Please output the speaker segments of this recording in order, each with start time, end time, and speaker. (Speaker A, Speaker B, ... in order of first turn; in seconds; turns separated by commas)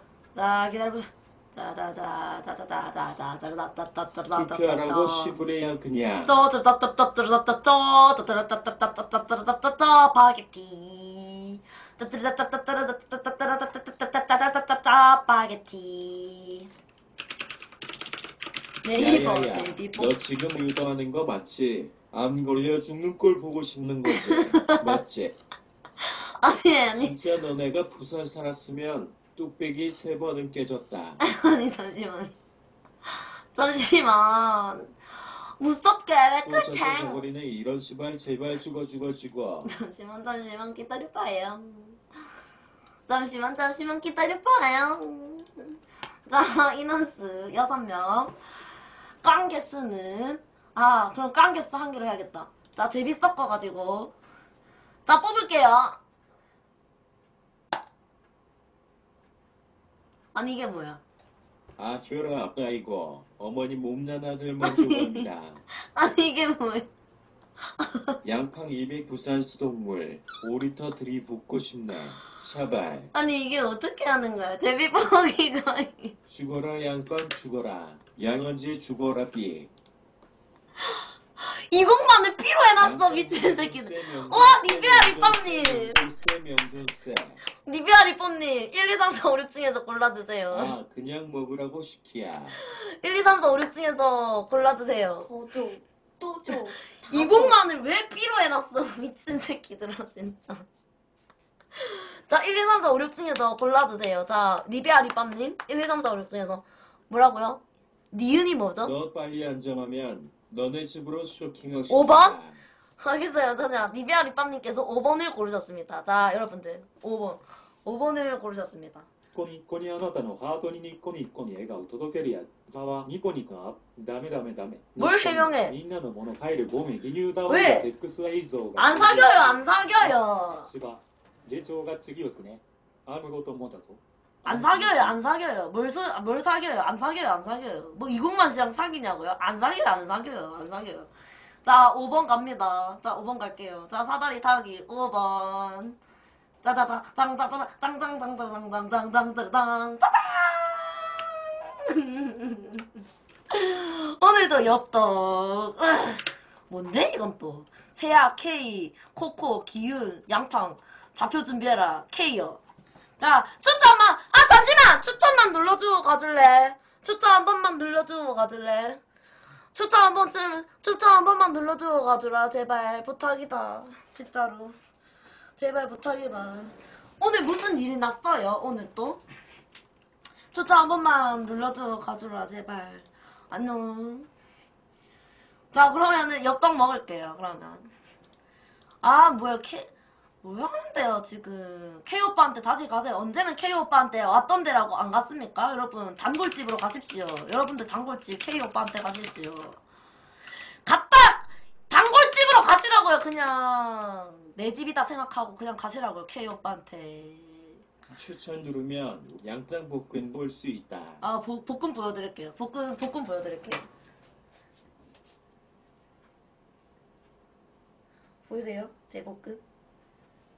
Speaker A: 0.3-5.4, Speaker B: 4.3-6.3, Speaker A: 6.2-16.7, Speaker A: 18.8-20.1, Speaker B: 18.9-25.4, Speaker A: 24.1-25.0, Speaker A: 26.0-27.2, Speaker B: 26.9-31.2, Speaker A: 31.2-32.3, Speaker A: 33.1-35.0, Speaker A: 35.6-37.2, Speaker B: 36.5-39.7, Speaker A: 39.6-42.0, Speaker A: 43.1-45.7, Speaker A: 46.3-48.3, Speaker A: 49.2-54.1, Speaker A: 55.1-56.0, Speaker A: 60.3-61.0, Speaker B: 61.8-65.6, Speaker A: 64.6-66.9, Speaker A: 67.8-68.2, Speaker B: 68.2-73.1, Speaker A: 73.1-76.2, Speaker B: 76.3-79.7, Speaker A: 80.8-86.0, Speaker B: 82.8-87.4, Speaker A: 87.6-90.8, Speaker B: 90.5-92.6, Speaker A: 92.7-95.3, Speaker C: 95.2-97.6, Speaker A: 97.1-100.7, Speaker A: 101.8-108.9, Speaker B: 108.8-112.6, Speaker A: 111.9-112.4, Speaker A: 113.0-119.1, Speaker D: 119.3-135.2, Speaker A: 125.0-125.8, Speaker A: 127.5-127.9, Speaker A: 128.8-130.7, Speaker A: 134.4-141.1, Speaker A: 141.6-146.0, Speaker A: 146.6-152.9, Speaker A: 153.5-162.6, Speaker A: 163.2-169.0, Speaker A: 169.7-174.8, Speaker A: 175.6-179.2, Speaker A: 180.5-184.3, Speaker A: 185.7-187.9, Speaker A: 189.0-189.9, Speaker A: 190.4-199.8, Speaker A: 200.8-207.8, Speaker B: 208.1-211.2, Speaker A: 211.2-213.9, Speaker A: 218.5-219.6